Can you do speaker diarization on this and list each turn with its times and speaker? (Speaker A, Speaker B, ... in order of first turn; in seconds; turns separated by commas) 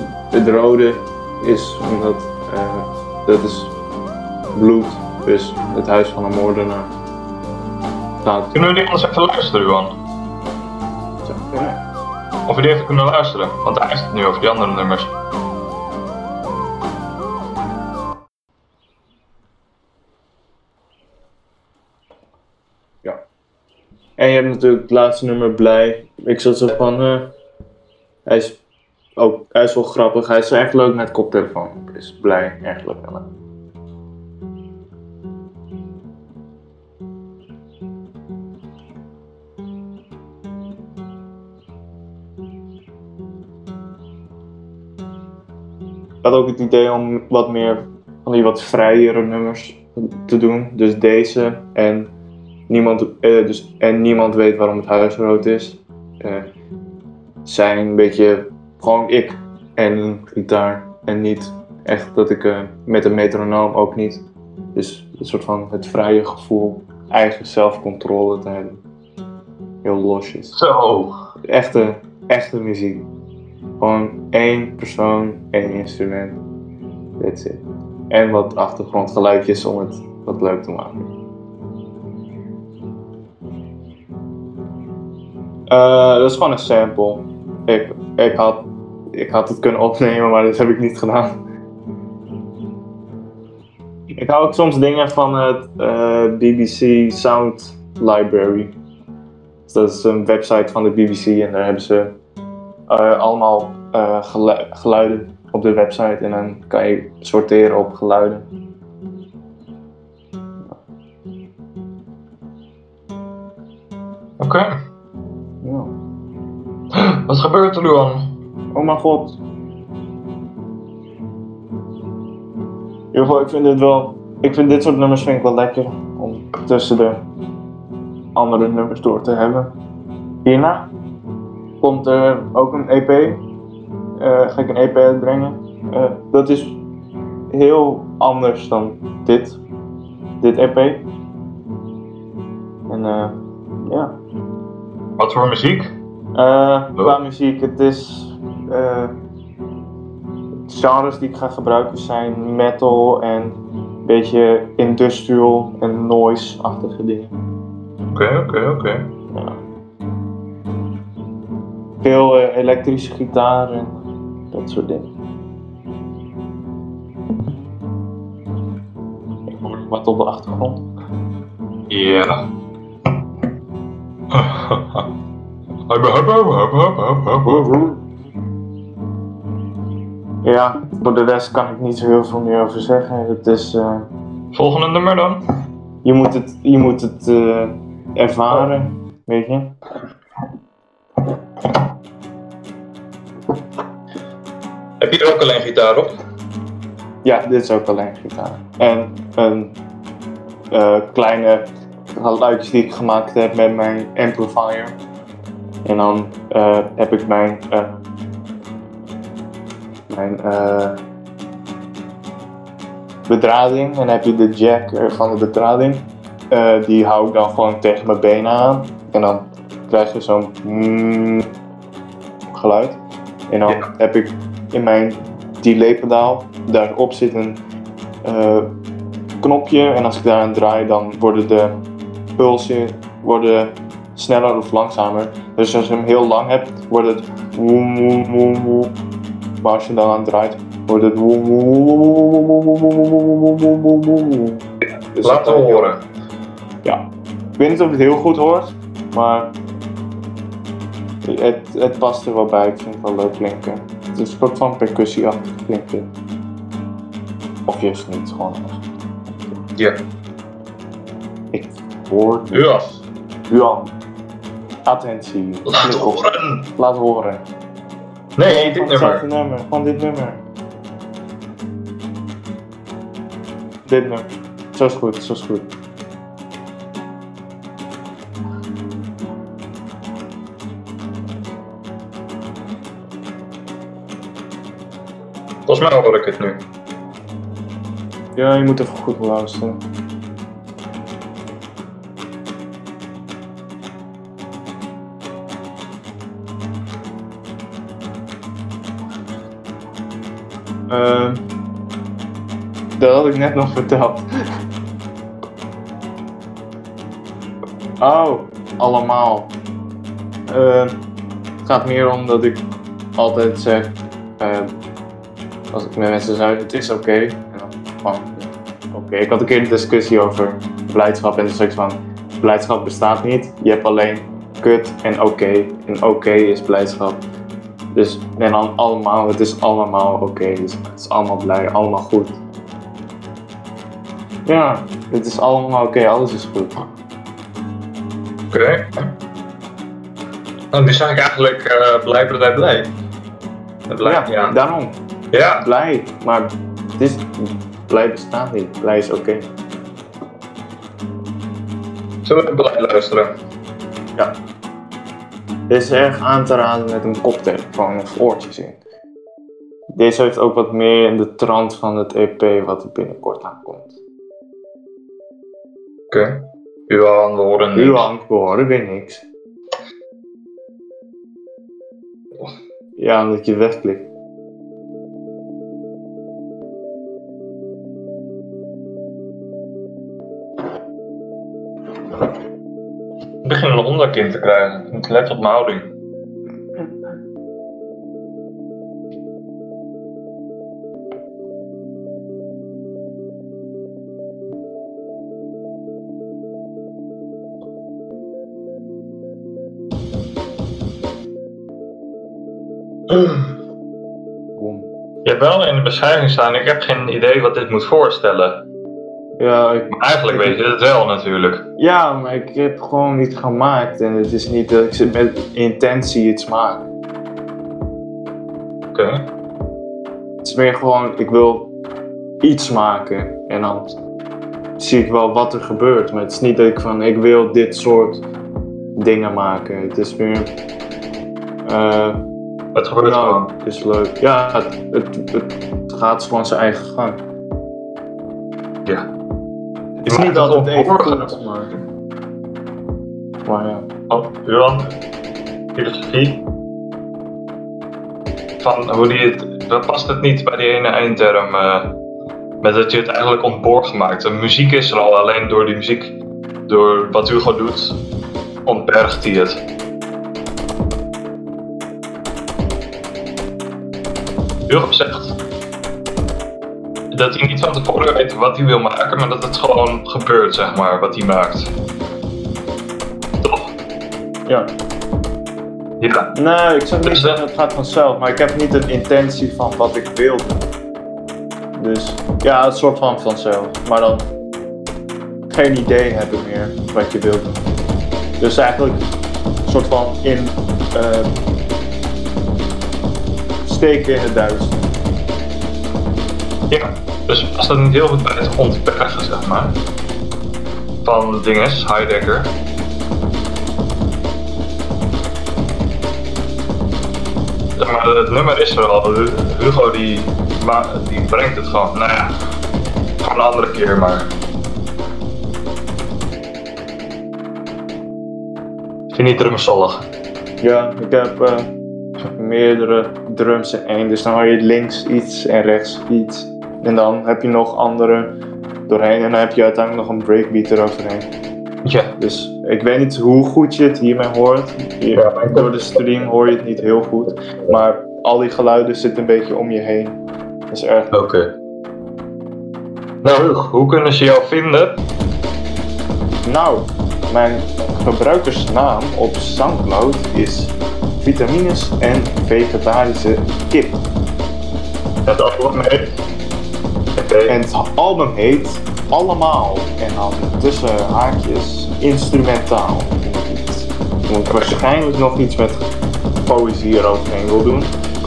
Speaker A: 0.3-3.7, Speaker A: 4.5-6.9, Speaker A: 8.2-8.8, Speaker B: 8.5-10.0, Speaker A: 11.2-11.8, Speaker B: 12.5-15.1, Speaker A: 24.2-27.2, Speaker A: 28.3-28.6, Speaker A: 29.2-33.2, Speaker A: 46.2-52.1, Speaker A: 52.7-56.5, Speaker A: 57.5-64.2, Speaker A: 64.8-68.8, Speaker A: 69.8-70.5, Speaker B: 70.5-71.1, Speaker A: 71.5-73.1, Speaker A: 73.8-76.4, Speaker A: 77.2-81.1, Speaker A: 85.7-88.6, Speaker A: 89.1-91.3, Speaker A: 94.2-98.7, Speaker A: 99.7-102.1, Speaker A: 102.9-108.5, Speaker B: 114.4-114.7, Speaker A: 115.6-115.9, Speaker B: 116.9-118.3, Speaker A: 118.7-119.4, Speaker A: 123.1-127.2, Speaker A: 128.3-129.7, Speaker A: 130.4-130.9, Speaker A: 131.8-133.4, Speaker A: 134.2-136.8, Speaker A: 137.5-139.6, Speaker A: 140.4-141.0, Speaker A: 142.9-143.3, Speaker A: 143.9-144.1, Speaker B: 145.2-145.9, Speaker A: 146.3-149.1, Speaker A: 150.7-157.3, Speaker B: 158.1-159.0, Speaker A: 159.3-159.6, Speaker A: 162.0-163.9, Speaker A: 164.5-165.1, Speaker A: 169.5-170.8, Speaker B: 171.9-172.4, Speaker B: 174.3-175.1, Speaker B: 175.9-177.7, Speaker A: 177.4-178.0, Speaker A: 180.4-184.1, Speaker B: 184.5-185.4, Speaker A: 186.0-189.7, Speaker B: 195.0-196.1, Speaker A: 197.2-199.8, Speaker A: 200.7-204.9, Speaker A: 205.8-208.0, Speaker A: 210.1-211.0, Speaker A: 213.3-221.5, Speaker A: 222.5-223.0, Speaker A: 223.5-227.6, Speaker A: 228.2-228.7, Speaker A: 229.4-231.7, Speaker A: 232.4-238.9, Speaker A: 239.6-244.6, Speaker A: 245.2-245.9, Speaker B: 245.2-246.0, Speaker A: 247.6-249.5, Speaker A: 251.2-256.1, Speaker A: 257.7-258.8, Speaker A: 261.5-262.9, Speaker B: 262.5-263.0, Speaker A: 263.5-263.9, Speaker A: 264.9-266.2, Speaker B: 265.7-266.6, Speaker A: 266.8-267.4, Speaker B: 268.4-269.2, Speaker A: 268.4-270.4, Speaker A: 273.9-275.7, Speaker B: 285.7-286.6, Speaker A: 288.4-289.8, Speaker A: 300.9-301.4, Speaker A: 302.9-304.3, Speaker A: 308.0-309.5, Speaker A: 310.5-310.9, Speaker A: 311.6-312.6, Speaker A: 313.2-314.7, Speaker A: 315.7-327.2, Speaker A: 327.9-332.4, Speaker A: 334.5-336.8, Speaker B: 338.5-339.1, Speaker B: 340.7-342.9, Speaker B: 343.9-344.6, Speaker A: 344.0-345.0, Speaker B: 345.3-345.6, Speaker A: 345.6-349.5, Speaker B: 352.2-353.3, Speaker A: 355.7-358.8, Speaker A: 359.9-364.0, Speaker B: 366.9-368.0, Speaker A: 367.8-369.2, Speaker A: 373.0-374.0, Speaker B: 383.4-385.9, Speaker B: 403.1-403.5, Speaker A: 404.6-404.9, Speaker B: 405.2-408.6, Speaker A: 409.4-410.6, Speaker B: 409.9-411.6, Speaker A: 411.8-416.8, Speaker B: 418.9-419.2, Speaker A: 420.4-421.7, Speaker A: 422.4-424.0, Speaker A: 424.8-428.2, Speaker A: 429.0-430.5, Speaker A: 431.6-432.2, Speaker B: 432.8-433.5, Speaker A: 433.0-437.2, Speaker A: 440.0-441.7, Speaker B: 440.1-441.3, Speaker A: 443.4-443.9, Speaker B: 444.1-445.0, Speaker B: 445.8-446.4, Speaker B: 448.6-451.9, Speaker B: 452.6-456.1, Speaker B: 456.7-458.0, Speaker B: 458.7-459.6, Speaker B: 464.7-465.4, Speaker B: 467.1-471.7, Speaker B: 473.4-473.7, Speaker B: 476.0-476.3, Speaker A: 476.3-480.6, Speaker B: 477.0-477.4, Speaker A: 481.8-484.3, Speaker A: 485.5-487.6, Speaker A: 488.4-489.0, Speaker A: 489.6-491.3, Speaker A: 493.6-494.9, Speaker B: 496.7-499.8, Speaker B: 501.0-502.5, Speaker B: 507.8-512.3, Speaker B: 513.2-514.3, Speaker B: 519.1-520.0, Speaker A: 520.6-521.7, Speaker A: 522.4-528.3, Speaker A: 528.9-531.3, Speaker B: 531.9-532.1, Speaker A: 532.2-540.2, Speaker B: 535.1-536.0, Speaker A: 540.7-541.1, Speaker B: 541.1-541.5, Speaker B: 543.2-545.0, Speaker A: 546.5-554.0, Speaker B: 555.3-556.2, Speaker B: 557.2-557.6, Speaker A: 557.5-565.9, Speaker A: 566.5-567.9